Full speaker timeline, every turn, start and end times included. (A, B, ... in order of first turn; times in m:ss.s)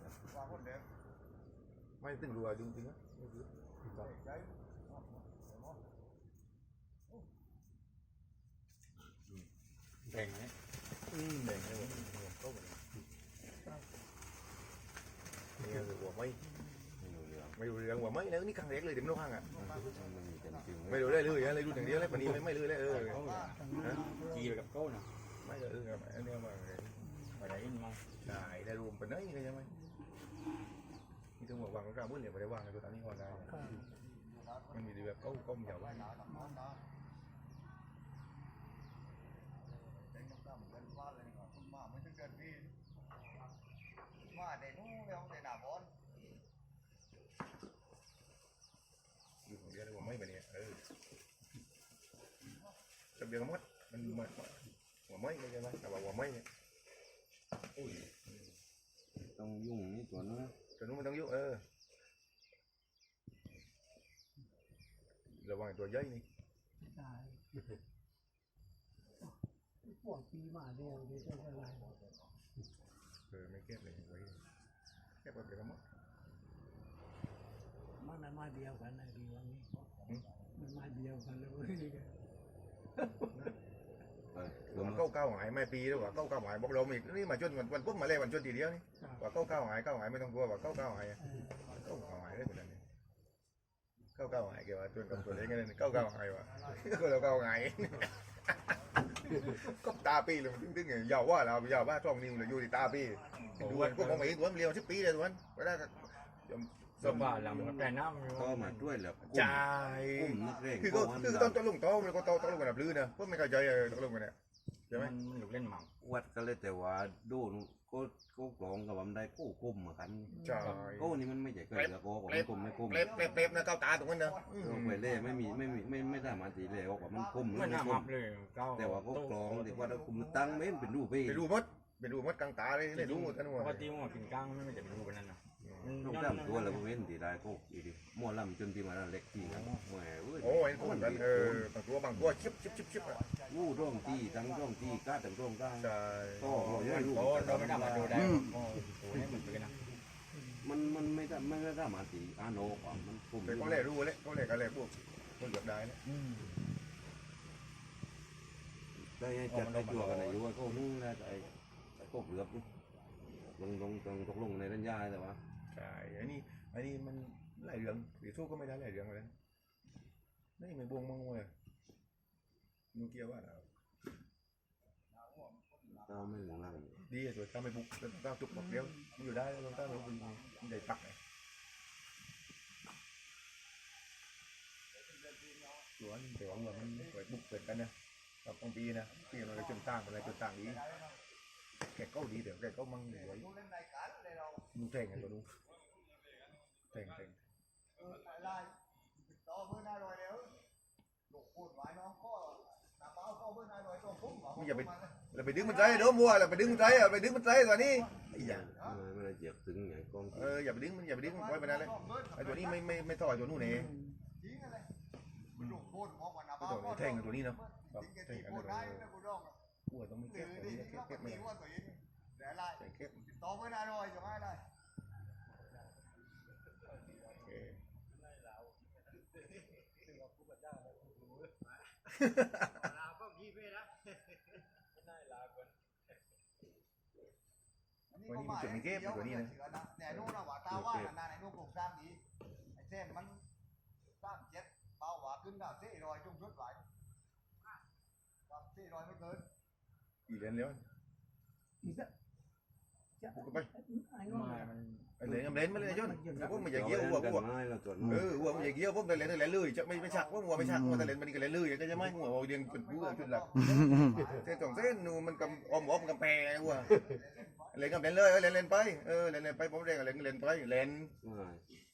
0:00.3-0:00.8 A
0:02.0-0:03.0 B
0:03.9-0:05.8 A
0:10.1-0:10.5 C
0:11.1-0:12.8 B
0:11.4-0:11.9 C
0:15.6-0:16.4 B
0:17.0-0:17.6 D
0:17.5-0:19.5 B
0:19.5-0:21.6 A
0:19.6-0:21.6 D
0:20.9-0:23.2 B
0:22.1-0:25.1 C
0:22.9-0:23.9 A
0:23.6-0:24.6 E
0:23.8-0:24.0 B
0:25.4-0:27.1 B
0:27.1-0:27.4 E
0:27.4-0:28.0 C
0:28.2-0:29.7 B
0:31.4-0:33.7 B
0:33.5-0:33.8 E
0:33.6-0:36.8 A
0:34.7-0:36.1 B
0:36.2-0:36.6 E
0:40.0-0:42.7 A
0:44.3-0:45.9 A
0:49.4-0:50.8 B
0:53.2-0:56.4 B
0:59.3-1:00.5 D
1:00.8-1:01.6 B
1:05.4-1:06.2 B
1:06.8-1:07.6 E
1:09.8-1:11.9 E
1:11.1-1:11.7 A
1:13.3-1:14.4 B
1:15.2-1:15.8 B
1:18.0-1:19.7 E
1:20.5-1:22.1 E
1:23.0-1:23.3 E
1:24.3-1:25.0 D
1:24.7-1:32.8 B
1:31.6-1:32.5 A
1:34.1-1:47.3 B
1:36.5-1:37.4 A
1:43.4-1:44.4 C
1:47.0-1:48.9 C
1:47.0-1:51.6 D
1:49.2-1:54.3 B
1:50.4-1:50.6 A
1:54.9-1:55.9 C
1:56.0-2:03.3 D
2:00.3-2:00.8 E
2:00.4-2:01.2 B
2:00.6-2:00.9 C
2:01.7-2:05.0 B
2:02.5-2:07.7 A
2:04.6-2:08.1 D
2:07.5-2:09.9 C
2:08.7-2:11.5 D
2:09.6-2:11.0 A
2:11.2-2:13.9 B
2:12.9-2:16.9 C
2:13.8-2:15.1 A
2:15.6-2:16.0 B
2:16.0-2:22.3 D
2:19.3-2:19.8 C
2:20.4-2:23.2 B
2:22.6-2:25.1 A
2:23.5-2:28.2 D
2:25.8-2:26.7 B
2:26.5-2:29.8 C
2:29.2-2:31.1 E
2:30.6-2:33.9 D
2:33.4-2:36.0 B
2:36.0-2:36.5 C
2:39.0-2:42.6 D
2:39.5-2:40.8 C
2:43.5-2:45.4 D
2:45.7-2:49.3 B
2:50.6-2:51.5 B
2:52.9-2:53.7 B
2:55.1-2:56.8 A
2:56.0-2:57.0 D
2:57.1-3:01.2 B
2:59.2-3:00.9 A
3:05.0-3:05.9 A
3:06.0-3:07.9 B
3:06.5-3:07.2 A
3:08.4-3:10.8 B
3:09.1-3:11.2 A
3:11.8-3:13.5 B
3:13.1-3:14.7 A
3:14.7-3:15.5 B
3:16.9-3:17.4 B
3:18.0-3:20.5 A
3:21.3-3:29.0 A
3:24.5-3:28.7 B
3:28.3-3:30.6 D
3:30.3-3:33.9 B
3:31.2-3:33.0 A
3:33.5-3:34.2 E
3:34.4-3:34.9 A
3:35.5-3:35.8 B
3:35.6-3:39.5 A
3:36.6-3:39.1 B
3:39.9-3:41.5 B
3:40.2-3:44.6 A
3:42.8-3:43.2 B
3:47.2-3:47.8 B
3:52.1-3:52.7 B
3:58.1-4:02.2 A
3:58.3-3:59.5 B
4:00.1-4:00.3 B
4:00.7-4:01.1 D
4:02.7-4:03.4 A
4:04.2-4:06.8 A
4:08.5-4:09.4 A
4:10.3-4:10.8 B
4:11.8-4:12.1 E
4:13.2-4:14.7 E
4:13.3-4:13.7 B
4:14.2-4:15.1 C
4:15.2-4:17.5 B
4:15.2-4:16.8 E
4:16.6-4:18.3 D
4:18.0-4:23.7 B
4:18.3-4:18.7 A
4:20.0-4:20.4 A
4:22.0-4:26.2 A
4:24.3-4:27.0 B
4:26.8-4:27.8 A
4:27.7-4:31.1 B
4:31.2-4:31.6 D